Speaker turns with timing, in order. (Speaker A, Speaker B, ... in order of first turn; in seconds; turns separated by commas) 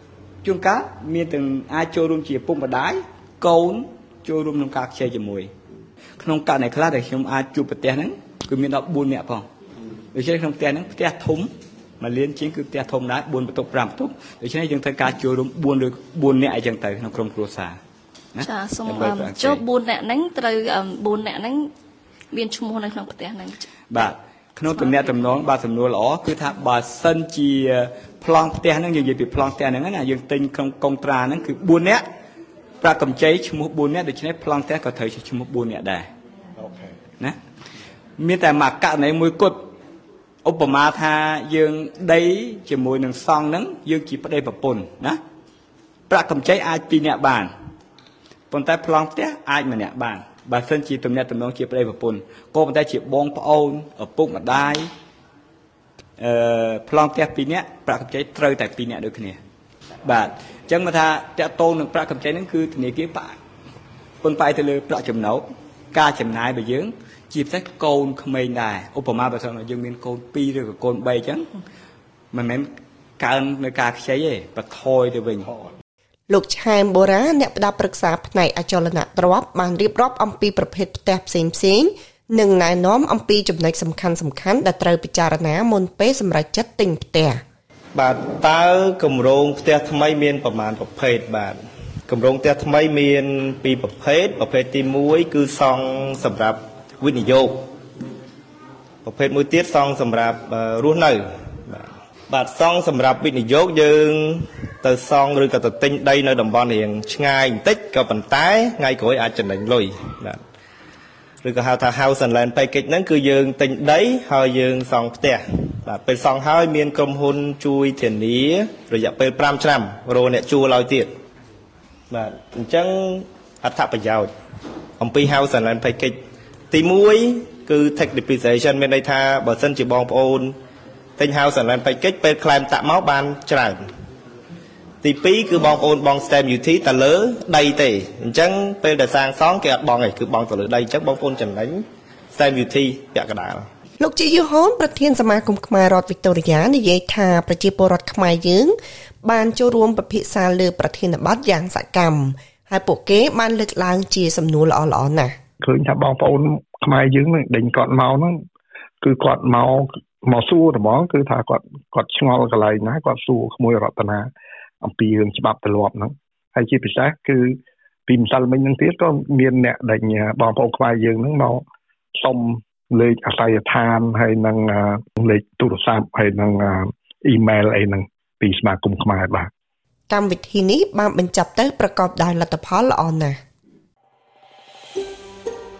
Speaker A: 0.4-5.5, Speaker A: 6.2-9.5, Speaker A: 10.1-17.8, Speaker A: 18.3-19.6, Speaker B: 18.4-21.7, Speaker B: 22.3-23.7, Speaker A: 23.9-32.0, Speaker A: 32.8-36.0, Speaker A: 38.2-39.6, Speaker A: 40.4-45.2, Speaker A: 46.1-47.5, Speaker A: 48.5-54.9, Speaker A: 56.2-59.4, Speaker A: 60.0-63.4, Speaker A: 64.2-71.5, Speaker A: 72.3-72.7, Speaker A: 73.2-75.6, Speaker C: 76.3-87.4, Speaker D: 88.0-97.6, Speaker D: 99.0-110.4, Speaker D: 111.4-121.1, Speaker D: 122.1-124.3, Speaker D: 125.0-126.2, Speaker D: 126.7-130.6, Speaker D: 131.2-133.8, Speaker D: 135.0-141.8, Speaker D: 142.3-143.7, Speaker C: 144.0-155.4, Speaker E: 155.6-158.4, Speaker E: 159.0-164.3, Speaker E: 164.8-171.6, Speaker E: 172.2-179.5, Speaker C: 180.1-183.4